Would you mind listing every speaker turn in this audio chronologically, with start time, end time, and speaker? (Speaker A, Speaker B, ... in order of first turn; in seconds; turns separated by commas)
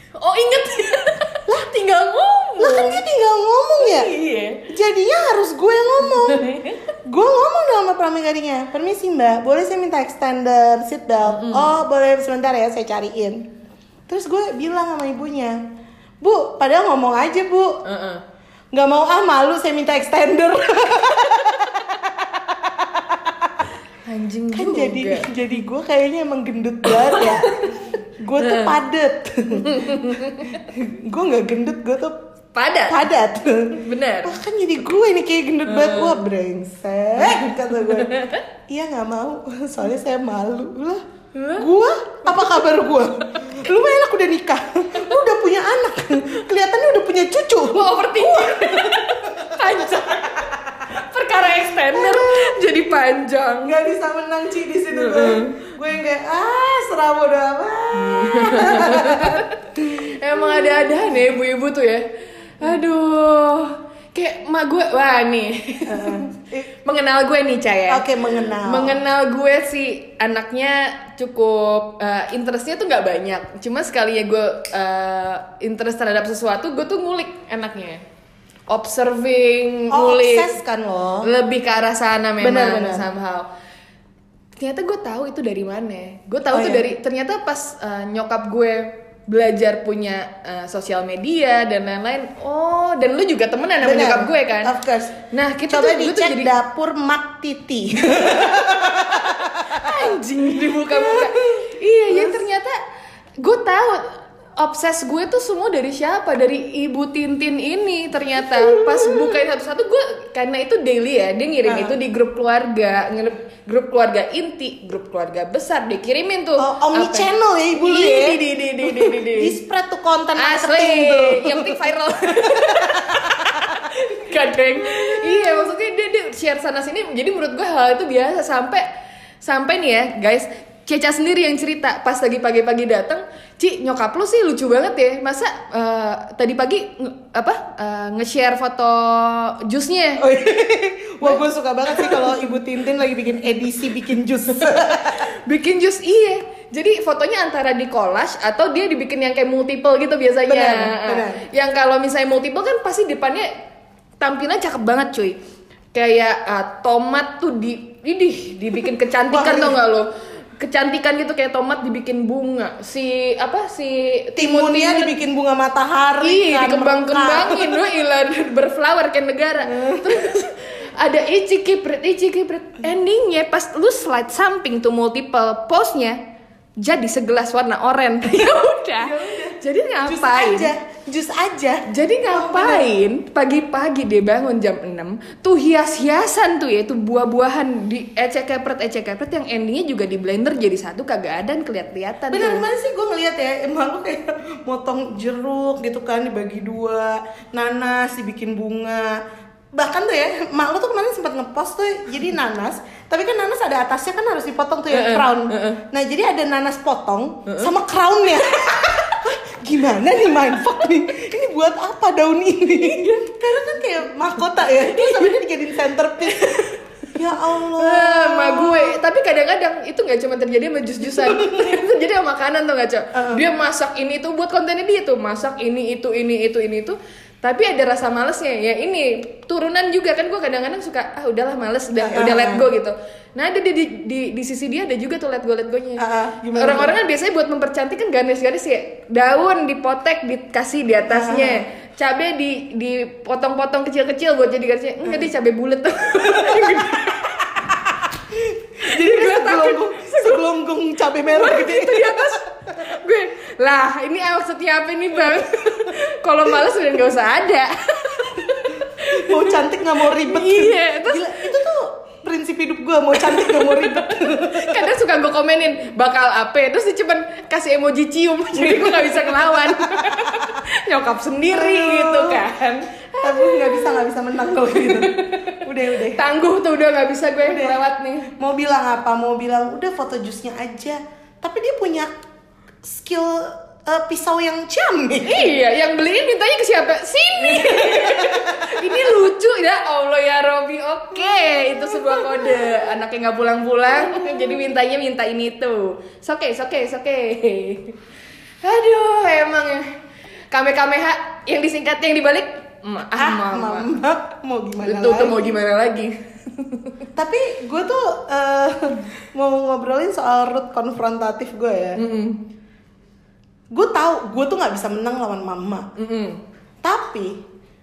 Speaker A: 0.1-3.0, Speaker B: 2.6-4.1, Speaker A: 3.8-4.7, Speaker B: 4.7-13.5, Speaker A: 6.2-6.8, Speaker A: 11.2-11.7, Speaker B: 14.1-15.6, Speaker B: 16.2-17.8, Speaker A: 17.8-18.2, Speaker B: 18.7-23.5, Speaker A: 24.0-25.3, Speaker B: 24.5-32.2, Speaker A: 26.8-27.8, Speaker A: 28.4-28.7, Speaker A: 29.6-30.6, Speaker A: 32.5-33.0, Speaker B: 32.9-38.2, Speaker A: 33.8-34.4, Speaker A: 35.6-36.2, Speaker A: 37.2-38.4, Speaker B: 38.7-41.0, Speaker A: 41.3-41.7, Speaker B: 41.6-50.7, Speaker A: 47.7-53.9, Speaker B: 51.9-52.7, Speaker B: 53.6-61.0, Speaker A: 54.9-55.6, Speaker A: 57.9-78.0, Speaker B: 65.9-66.7, Speaker B: 67.9-69.0, Speaker A: 78.7-80.5, Speaker B: 79.9-81.3, Speaker A: 81.2-83.5, Speaker B: 82.4-83.1, Speaker A: 84.5-94.7, Speaker B: 86.5-86.9, Speaker B: 93.8-102.4, Speaker A: 95.3-96.5, Speaker A: 99.7-102.8, Speaker A: 103.4-119.5, Speaker B: 108.5-109.4, Speaker B: 111.6-112.0, Speaker B: 116.6-121.8, Speaker A: 120.3-128.8, Speaker B: 122.3-123.8, Speaker B: 124.9-125.7, Speaker A: 129.4-140.3, Speaker B: 140.2-145.3, Speaker A: 141.9-142.2, Speaker A: 144.6-153.5, Speaker B: 150.4-151.4, Speaker A: 154.2-155.4, Speaker A: 155.9-165.2, Speaker B: 159.3-159.8, Speaker B: 164.3-167.8, Speaker A: 166.2-176.2, Speaker B: 169.7-170.3, Speaker A: 176.8-180.7, Speaker B: 179.0-182.9, Speaker A: 181.9-192.7, Speaker B: 192.3-199.2, Speaker B: 199.7-216.6, Speaker A: 204.9-205.8, Speaker A: 207.4-207.7, Speaker A: 208.5-209.3, Speaker A: 212.7-213.4, Speaker A: 214.7-215.3, Speaker A: 216.2-247.5, Speaker B: 217.1-219.0, Speaker B: 221.1-221.8, Speaker B: 223.1-223.4, Speaker B: 232.0-232.6, Speaker B: 236.0-237.0, Speaker B: 241.1-241.6, Speaker B: 246.3-246.7, Speaker B: 247.7-252.9, Speaker A: 248.8-250.4, Speaker A: 251.2-261.6, Speaker B: 259.0-264.9, Speaker A: 263.1-278.3, Speaker B: 268.5-270.6, Speaker B: 271.5-272.5, Speaker B: 273.2-276.2, Speaker B: 277.4-282.1, Speaker B: 282.8-285.6, Speaker A: 285.2-298.0, Speaker B: 287.4-289.0, Speaker B: 291.9-292.7, Speaker B: 294.1-294.5, Speaker A: 298.6-299.9, Speaker A: 300.5-303.9, Speaker B: 303.1-305.6, Speaker A: 304.8-307.0, Speaker B: 307.1-312.0, Speaker A: 311.9-312.4, Speaker B: 313.7-315.9, Speaker A: 316.0-316.4, Speaker B: 316.8-317.4